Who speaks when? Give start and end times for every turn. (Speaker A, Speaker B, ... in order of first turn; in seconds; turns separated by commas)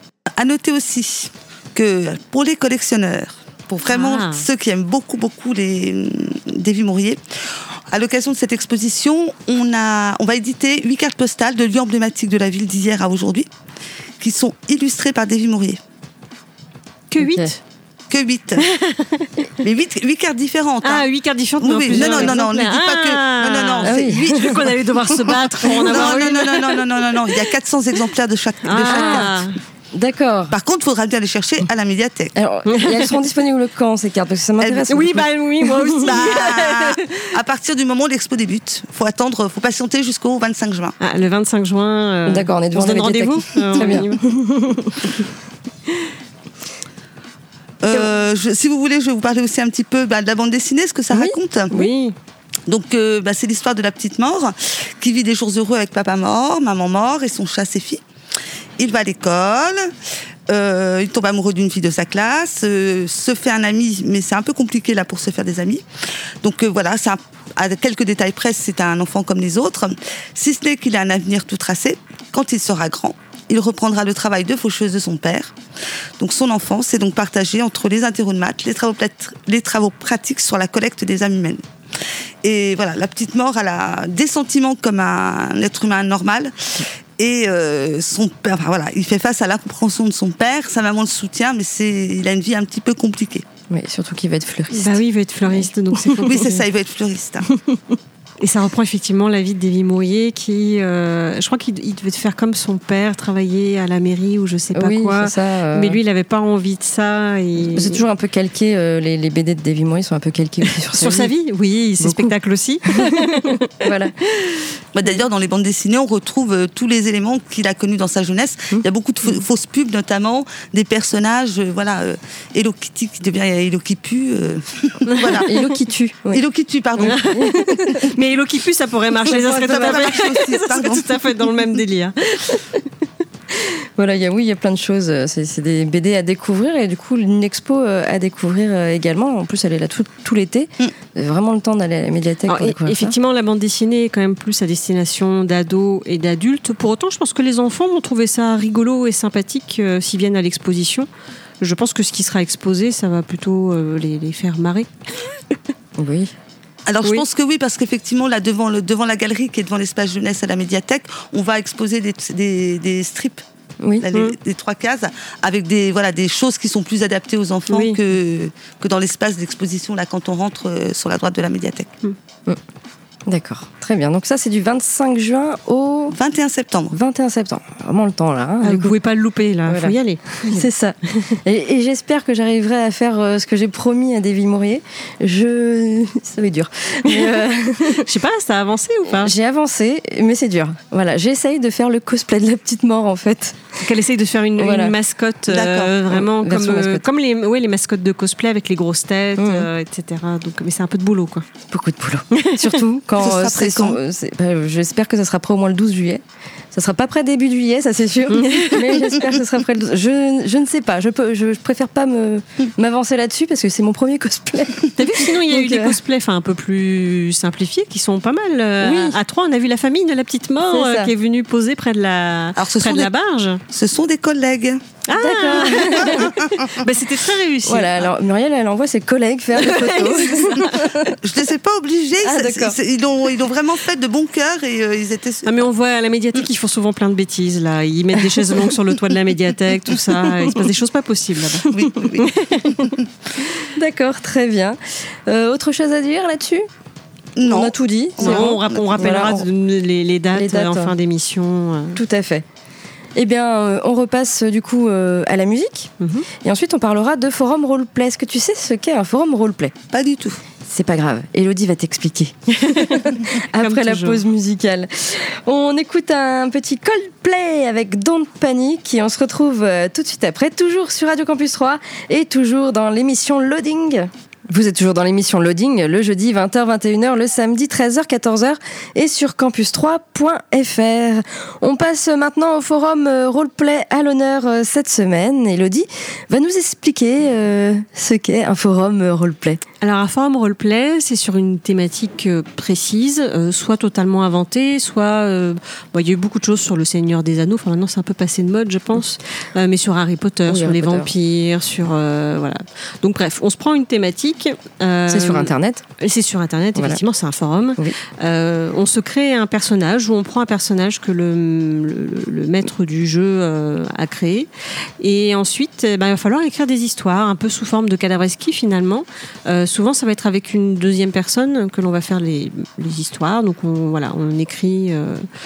Speaker A: 0.3-7.2, Speaker B: 3.9-4.4, Speaker A: 7.9-13.5, Speaker A: 14.2-15.8, Speaker B: 17.1-17.6, Speaker C: 17.2-17.5, Speaker A: 18.1-18.6, Speaker B: 18.6-19.3, Speaker A: 19.6-21.1, Speaker B: 20.8-27.0, Speaker A: 21.6-29.4, Speaker C: 21.9-22.4, Speaker C: 23.8-24.6, Speaker C: 25.8-26.3, Speaker B: 28.6-29.6, Speaker C: 28.8-29.3, Speaker C: 29.9-30.5, Speaker A: 30.5-32.3, Speaker C: 32.3-36.1, Speaker B: 32.6-33.1, Speaker A: 34.6-34.9, Speaker B: 34.9-37.2, Speaker A: 36.0-41.0, Speaker B: 41.0-44.2, Speaker C: 42.3-45.1, Speaker A: 47.8-51.8, Speaker C: 51.1-51.4, Speaker B: 51.7-52.1, Speaker A: 52.7-58.0, Speaker A: 58.8-59.9, Speaker A: 60.5-65.8, Speaker A: 66.4-75.5, Speaker A: 76.2-81.6, Speaker A: 82.4-93.4, Speaker C: 93.7-95.7, Speaker B: 94.7-96.6, Speaker A: 96.2-97.5, Speaker C: 97.5-98.0, Speaker B: 98.4-108.0, Speaker C: 104.7-106.0, Speaker C: 107.6-111.3, Speaker B: 110.9-113.7, Speaker C: 112.0-112.3, Speaker C: 112.8-114.1, Speaker B: 114.4-114.7, Speaker A: 114.9-125.6, Speaker B: 125.0-125.6, Speaker C: 125.5-126.4, Speaker A: 126.3-127.4, Speaker C: 127.0-128.0, Speaker B: 127.0-132.7, Speaker A: 129.2-131.1, Speaker C: 129.7-130.2, Speaker C: 133.6-143.1, Speaker B: 142.5-151.1, Speaker B: 151.6-154.9, Speaker C: 156.0-156.3, Speaker A: 156.9-163.4, Speaker C: 163.8-164.1, Speaker A: 164.0-171.9, Speaker B: 167.7-168.0, Speaker C: 173.3-176.2, Speaker A: 176.1-176.9, Speaker C: 176.9-179.0, Speaker B: 178.6-180.7, Speaker C: 179.7-188.1, Speaker B: 187.1-189.3, Speaker C: 189.1-193.8, Speaker B: 193.8-201.4, Speaker C: 194.6-194.9, Speaker A: 195.5-195.9, Speaker C: 196.1-197.0, Speaker C: 199.3-199.7, Speaker C: 201.7-206.2, Speaker A: 203.2-204.0, Speaker C: 206.7-216.0, Speaker B: 208.3-209.1, Speaker B: 214.9-223.6, Speaker C: 218.8-219.2, Speaker C: 220.7-221.1, Speaker A: 222.6-223.1, Speaker A: 223.7-224.8, Speaker B: 225.1-228.1, Speaker C: 225.2-226.4, Speaker A: 226.0-226.7, Speaker C: 227.7-231.2, Speaker B: 229.6-230.9, Speaker A: 231.2-235.7, Speaker C: 232.2-232.8, Speaker B: 235.4-241.7, Speaker C: 240.2-240.5, Speaker A: 241.7-243.0, Speaker C: 241.7-242.9, Speaker C: 243.7-246.7, Speaker A: 247.4-249.2, Speaker C: 247.4-249.5, Speaker B: 248.2-252.0, Speaker C: 250.3-250.9, Speaker C: 251.9-252.4, Speaker C: 253.2-259.7, Speaker B: 256.0-256.2, Speaker A: 259.9-260.4, Speaker C: 260.6-289.6, Speaker B: 262.6-264.2, Speaker B: 289.8-314.5, Speaker C: 300.5-301.1, Speaker C: 305.1-305.8, Speaker B: 315.0-325.3